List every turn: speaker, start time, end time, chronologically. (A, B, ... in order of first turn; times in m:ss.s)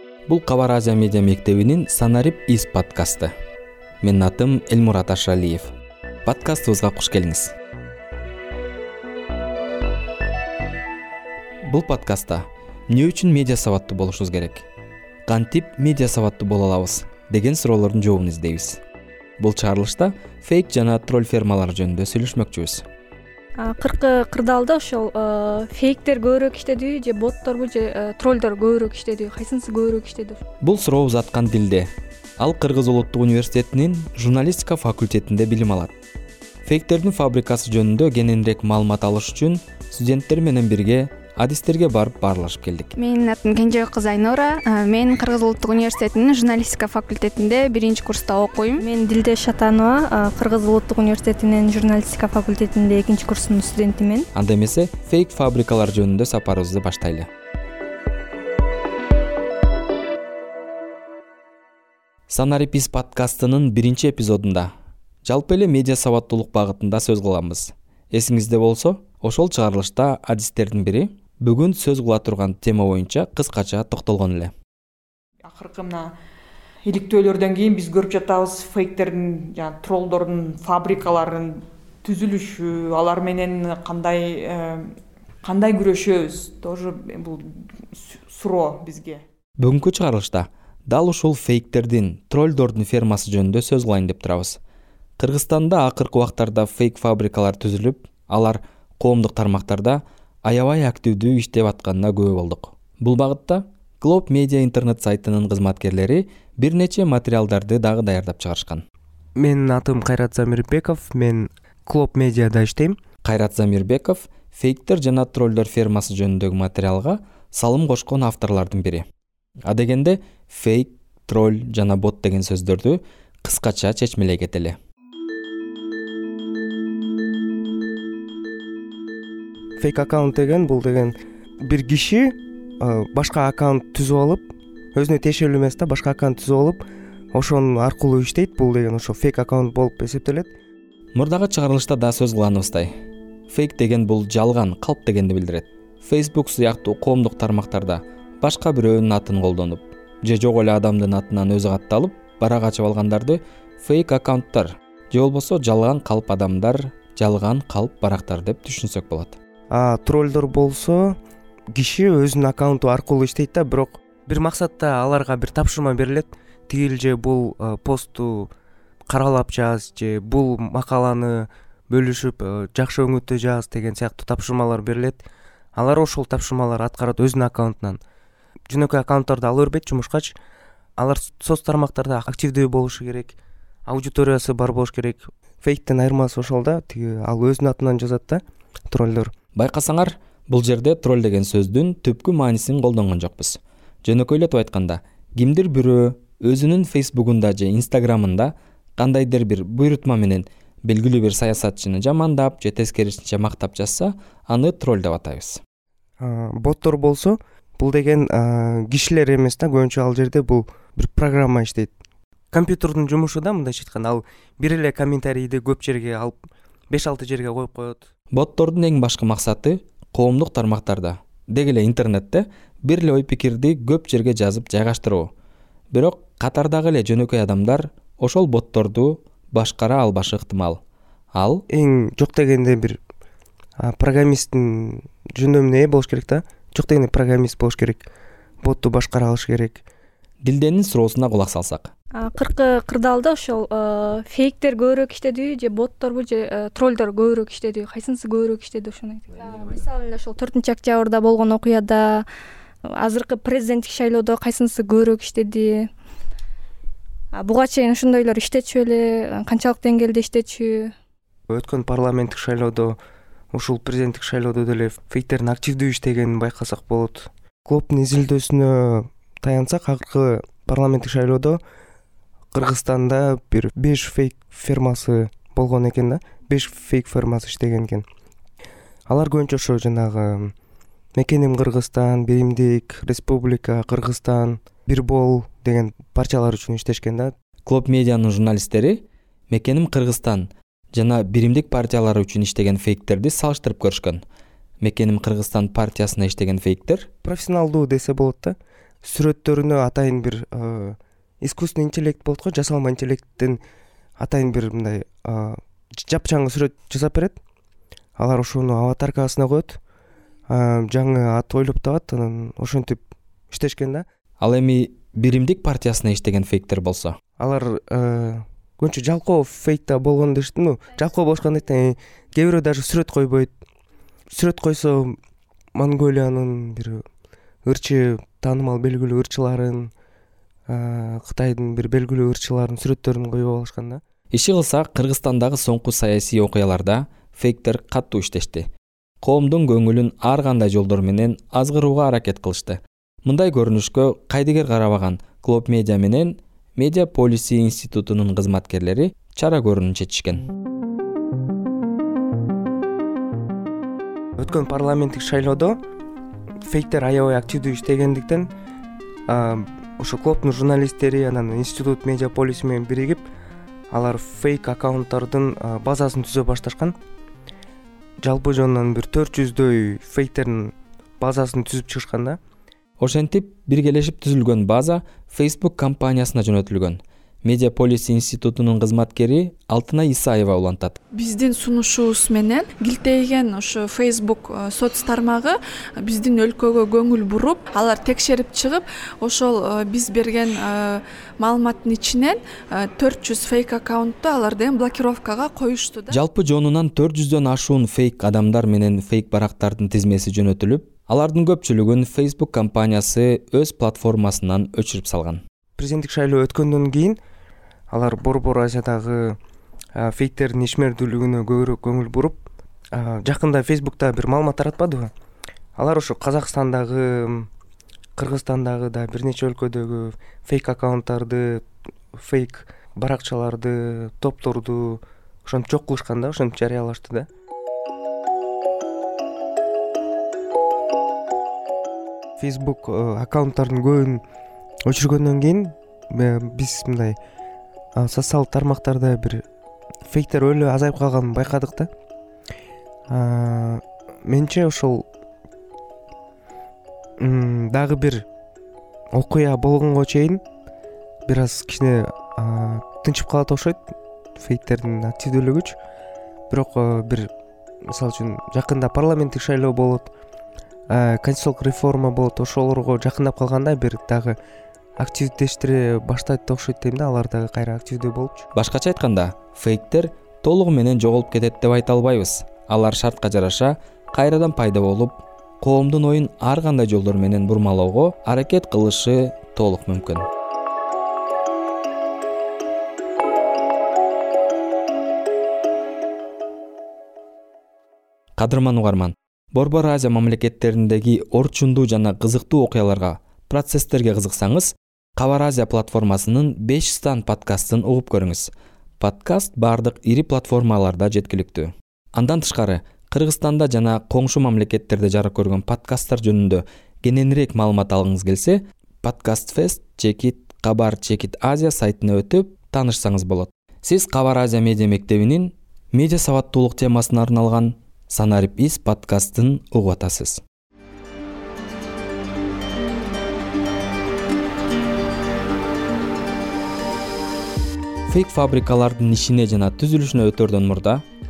0:00.3-0:03.3 A
0:04.0-0:05.7 A
0:06.2-0:07.5 A
0:11.7-0:14.7 A
0:15.3-0:18.8 A
0:19.4-0:22.8 A
0:23.6-0:30.4 B
0:30.6-0:35.9 A
0:36.6-0:43.0 A
0:43.0-0:48.8 C
0:48.8-0:54.3 B
0:54.3-0:57.3 A
1:02.3-1:04.7 A
1:05.2-1:14.5 A
1:15.4-1:16.1 D
1:16.8-1:24.9 D
1:25.4-1:29.2 D
1:29.6-1:34.6 A
1:35.2-1:48.8 A
1:49.4-1:53.0 E
1:53.2-1:59.1 A
1:59.6-2:04.8 A
2:09.8-2:16.8 E
2:17.3-2:20.5 E
2:21.2-2:22.9 A
2:23.5-2:39.4 A
2:39.7-2:41.2 E
2:41.7-2:48.5 E
2:49.1-2:55.2 E
2:55.8-2:58.0 E
2:58.7-3:00.4 E
3:01.0-3:03.4 E
3:03.9-3:09.3 E
3:09.6-3:25.6 A
3:26.2-3:31.9 E
3:32.5-3:38.1 E
3:38.3-3:45.3 A
3:45.9-3:50.8 A
3:51.4-3:51.6 A
3:51.7-3:53.0 E
3:53.8-3:58.0 E
3:58.6-3:59.8 E
4:00.4-4:01.9 A
4:02.2-4:12.3 B
4:13.0-4:15.9 B
4:17.4-4:20.9 B
4:21.5-4:23.0 E
4:23.5-4:31.6 E
4:32.5-4:38.0 E
4:39.1-4:40.5 E
4:41.2-4:47.3 E
4:47.7-4:54.2 A
4:54.8-4:57.1 A
4:57.2-5:03.6 E
5:04.2-5:07.4 E
5:08.2-5:09.8 E
5:10.5-5:14.0 E
5:14.4-5:17.2 A
5:17.4-5:23.5 E
5:24.3-5:25.2 E
5:25.8-5:27.0 E
5:27.6-5:29.9 E
5:30.7-5:34.0 E
5:34.3-5:38.7 A
5:39.2-5:50.4 A
5:54.4-5:55.8 E
5:56.7-5:58.5 E
5:59.3-6:03.3 E
6:03.9-6:07.0 E
6:08.2-6:12.4 E
6:13.0-6:21.0 A
6:21.1-6:36.2 F
6:36.1-6:45.4 A
6:45.8-6:47.2 E
6:47.9-6:49.4 E
6:50.0-6:52.4 E
6:52.9-6:55.1 E
6:55.8-6:57.5 E
6:58.2-7:07.3 E
7:12.4-7:14.2 E
7:14.9-7:17.2 E
7:18.0-7:19.4 E
7:20.1-7:21.9 E
7:23.1-7:25.1 E
7:27.2-7:28.3 E
7:29.2-7:30.4 E
7:31.3-7:35.8 E
7:36.5-7:37.3 E
7:37.9-7:40.1 E
7:40.9-7:44.4 E
7:45.0-7:48.5 E
7:48.5-8:00.3 A
8:08.4-8:40.4 A
8:48.1-8:51.0 A